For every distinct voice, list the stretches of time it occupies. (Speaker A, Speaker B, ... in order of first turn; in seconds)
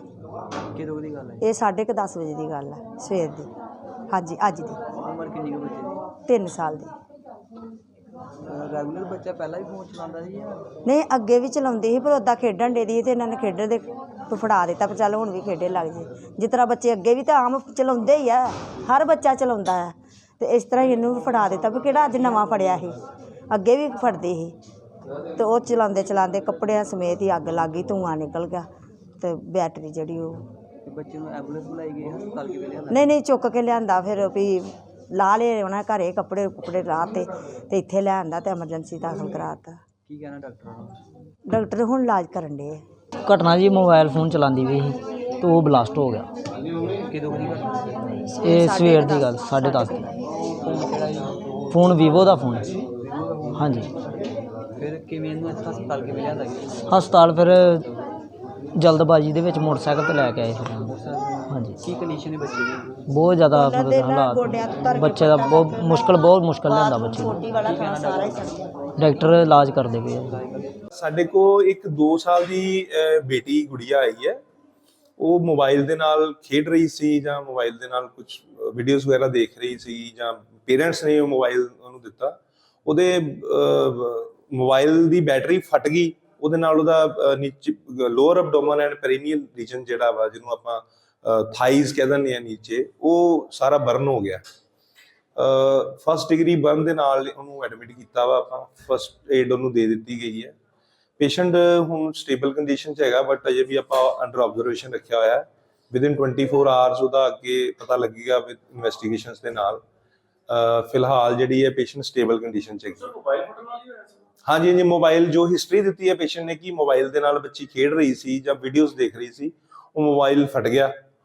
Speaker A: 0.7-1.4, 5.0-6.0, 8.5-10.6, 30.8-33.1, 40.0-41.0, 47.1-48.0, 50.4-51.9, 53.0-54.0, 54.8-57.0, 60.8-62.9, 67.6-69.7, 70.2-70.7
Speaker B: 1.4-3.5, 4.1-4.8, 6.3-6.9, 10.8-23.0, 23.5-24.5, 25.4-28.6, 29.2-30.4, 32.9-39.8, 41.5-42.8, 48.3-50.1, 63.5-68.6
Speaker C: 43.2-46.3, 48.4-50.0, 51.7-52.7, 53.5-53.9, 56.9-57.8, 58.7-60.9, 61.5-61.8, 63.1-67.4, 69.0-70.3
Speaker D: 70.9-74.4, 75.2-94.4, 95.3-100.5, 101.2-109.8, 110.5-120.9